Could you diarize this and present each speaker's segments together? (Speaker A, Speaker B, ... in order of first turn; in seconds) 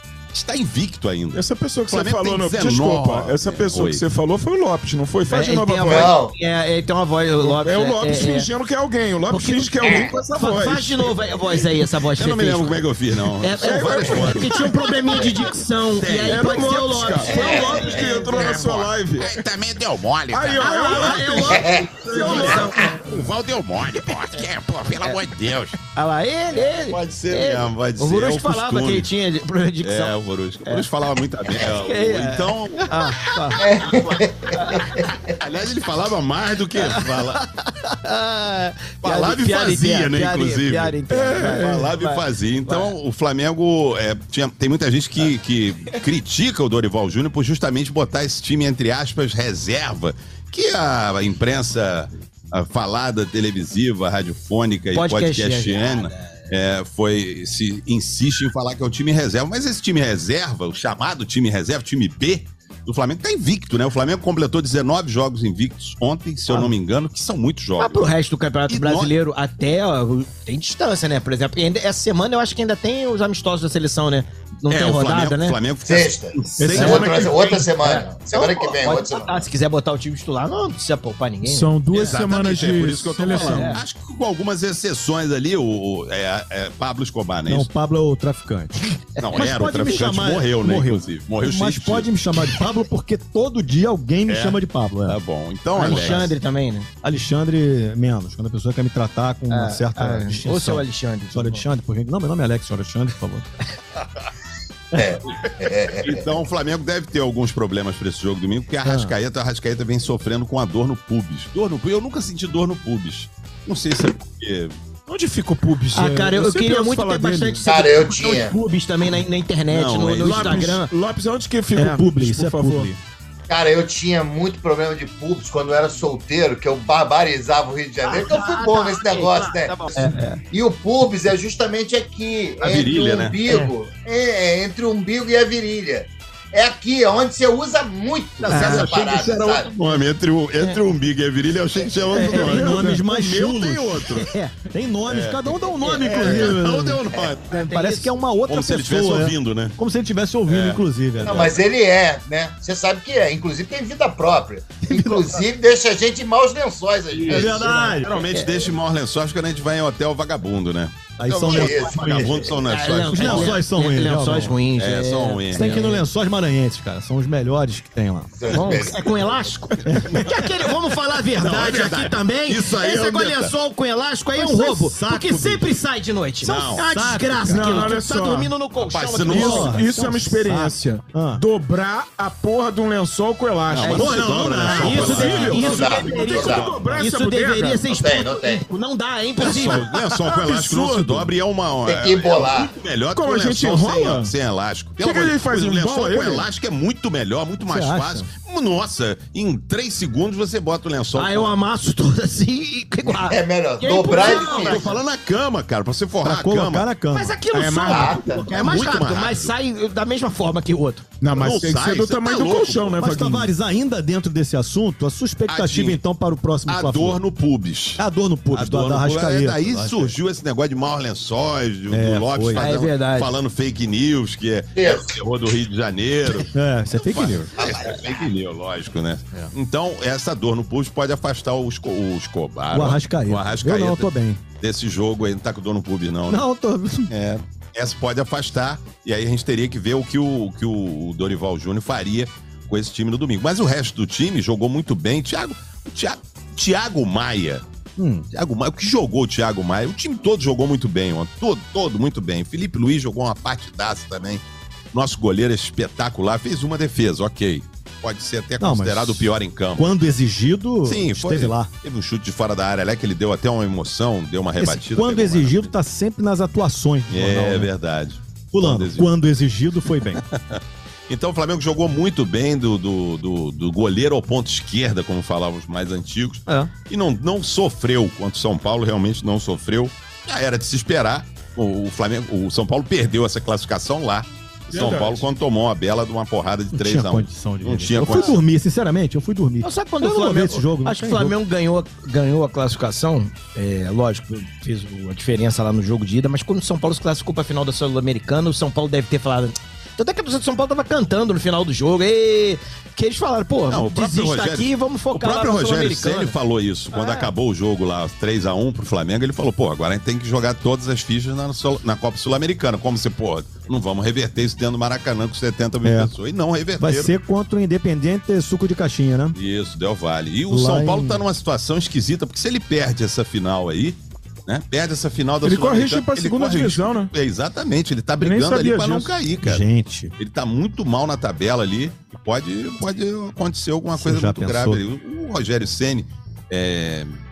Speaker A: 0.3-4.0, 12.1-14.8, 15.9-25.8, 26.5-29.1, 29.8-37.4, 39.0-68.1, 68.7-69.2, 74.7-77.1, 81.9-87.7, 89.2-92.1, 94.3-96.3, 106.0-114.8, 119.7-120.7, 132.6-133.4, 138.4-144.3, 145.1-147.7, 148.4-149.7, 150.5-151.6, 157.1-163.6, 164.7-165.8, 171.3-173.5, 176.4-177.6, 178.8-179.7, 183.7-187.0, 189.4-201.5, 203.9-206.9, 208.4-209.5, 211.3-213.0, 215.5-216.0, 216.7-236.5, 237.1-247.6, 248.3-259.9, 260.8-265.7, 267.1-269.1, 269.9-288.4, 303.7-317.1, 319.3-329.6, 330.2-337.1
Speaker B: 1.3-6.2, 7.4-11.1, 13.6-14.7, 16.2-19.4, 20.3-22.9, 41.2-41.9, 76.7-77.7, 81.4-83.8, 115.1-117.7, 120.2-122.9, 177.5-178.5, 179.3-187.8, 190.2-191.3, 193.1-194.3, 195.0-196.5, 207.5-208.2, 211.2-213.5, 284.7-285.2, 325.4-327.1, 328.2-329.1
Speaker C: 5.3-8.5, 9.3-12.8, 13.4-18.8, 20.6-23.0, 25.9-30.9, 31.5-34.0, 34.5-35.1, 36.8-42.9, 54.9-56.3, 66.5-66.7, 67.8-75.6, 76.8-77.1, 77.8-82.2, 83.3-83.8, 95.7-96.9, 99.5-101.6, 115.9-120.9, 128.0-130.4, 133.5-133.7, 138.5-138.9, 142.1-142.9, 144.2-144.5, 145.6-146.5, 147.5-148.1, 158.1-158.6, 162.6-166.0, 168.5-180.3, 183.8-189.8, 201.1-205.0, 207.1-211.1, 222.5-223.3, 289.6-306.3, 306.9-307.3
Speaker D: 5.8-6.3, 9.8-10.1, 17.3-17.9, 21.5-21.9, 33.6-35.1, 75.8-79.5, 104.9-106.2, 117.6-118.5, 123.5-139.7, 151.2-157.9, 161.4-162.5, 168.4-169.5, 185.6-186.6, 187.8-188.6, 191.8-192.7, 203.0-204.8, 207.8-208.4, 224.8-225.2, 227.6-228.3
Speaker E: 87.5-95.2, 95.8-96.2, 97.0-103.4, 108.8-109.1, 121.7-123.0, 142.1-151.5, 154.9-155.4, 157.3-158.2, 161.2-162.4, 163.1-164.5, 165.5-168.7, 169.8-170.2, 174.3-175.7, 176.9-177.9, 179.3-181.4, 183.9-185.8, 197.7-198.3, 206.2-207.4, 213.0-217.2, 218.0-220.1, 221.9-222.7, 226.5-227.5, 232.7-234.4, 236.3-237.1, 248.0-248.3, 258.6-261.7, 264.6-267.7, 268.5-270.2, 286.7-291.3, 315.8-316.1, 316.8-319.4, 320.5-321.2, 329.4-330.1, 334.0-334.8